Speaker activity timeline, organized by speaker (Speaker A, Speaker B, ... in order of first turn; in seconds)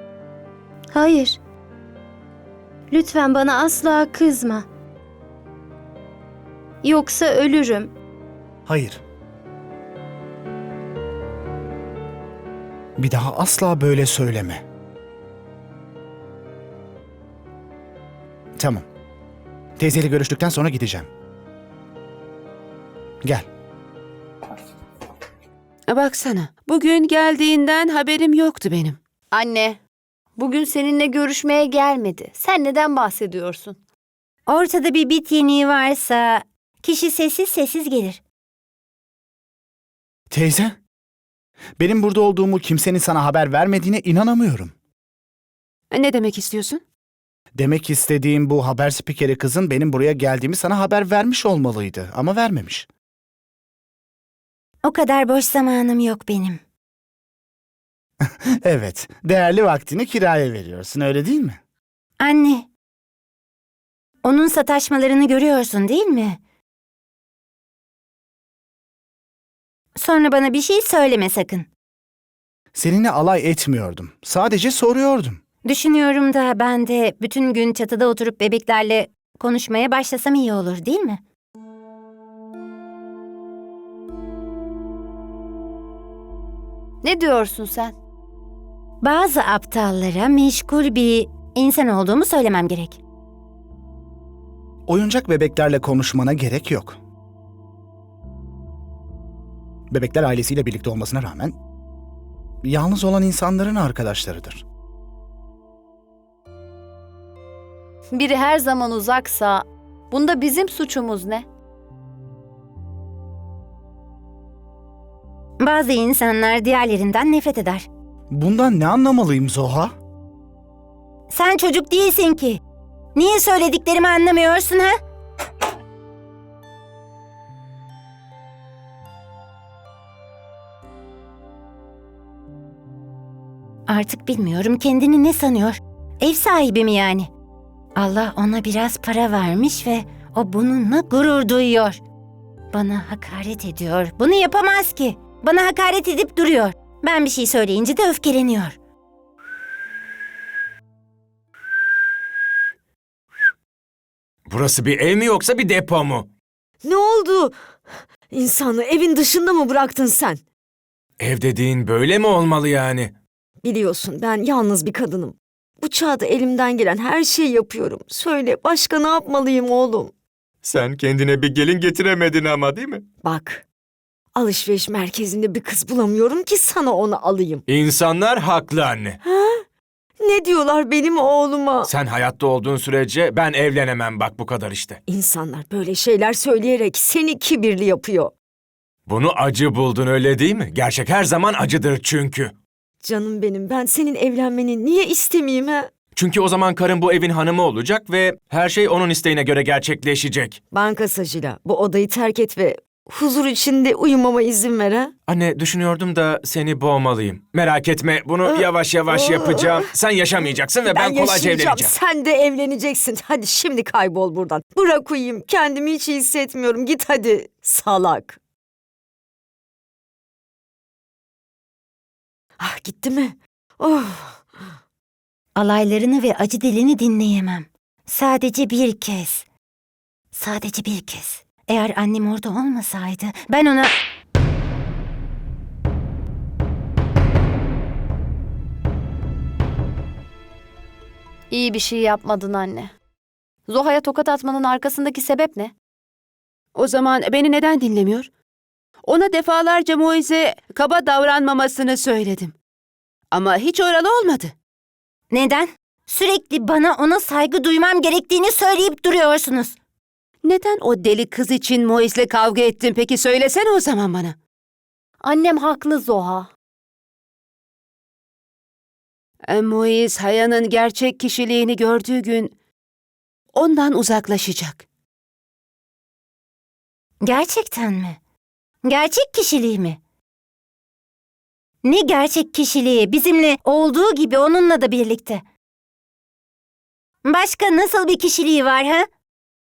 Speaker A: 0.9-1.4, 2.9-4.7, 6.8-7.9
Speaker B: 8.7-9.0, 13.0-14.6, 18.6-18.9, 19.8-21.1, 40.3-40.8, 41.8-44.7, 47.5-52.9, 58.6-61.6, 72.8-75.4, 94.9-97.0, 99.9-101.6, 102.6-104.6, 118.3-119.9
Speaker C: 25.9-29.0, 45.9-46.8, 246.8-248.3, 249.0-252.6, 253.3-254.5, 260.4-264.4, 269.5-272.5, 273.6-274.8
Speaker D: 29.3-29.8, 30.4-33.8, 87.0-88.0, 108.1-111.5, 241.5-242.9, 243.7-245.7, 265.2-266.5
Speaker E: 34.5-38.2, 54.8-56.6, 62.2-62.7, 64.2-66.4, 70.0-71.7, 75.7-81.2, 89.0-93.0, 115.6-117.9, 121.3-122.6, 123.2-125.0, 133.9-137.3, 138.0-142.0, 142.7-148.8, 225.6-229.4, 230.3-233.9, 255.3-259.8, 277.2-278.2, 278.8-280.0, 281.8-285.4, 287.2-289.1
Speaker F: 154.5-156.3, 161.2-163.2, 170.6-173.1, 177.7-179.2, 181.9-185.0, 189.1-192.5, 196.2-200.6, 205.3-211.9
Speaker G: 156.8-160.4, 163.6-170.1, 173.2-173.7, 174.3-177.7, 179.2-179.6, 180.2-181.9, 185.1-188.3, 193.0-195.9, 200.7-205.1, 208.4-218.4, 222.6-224.6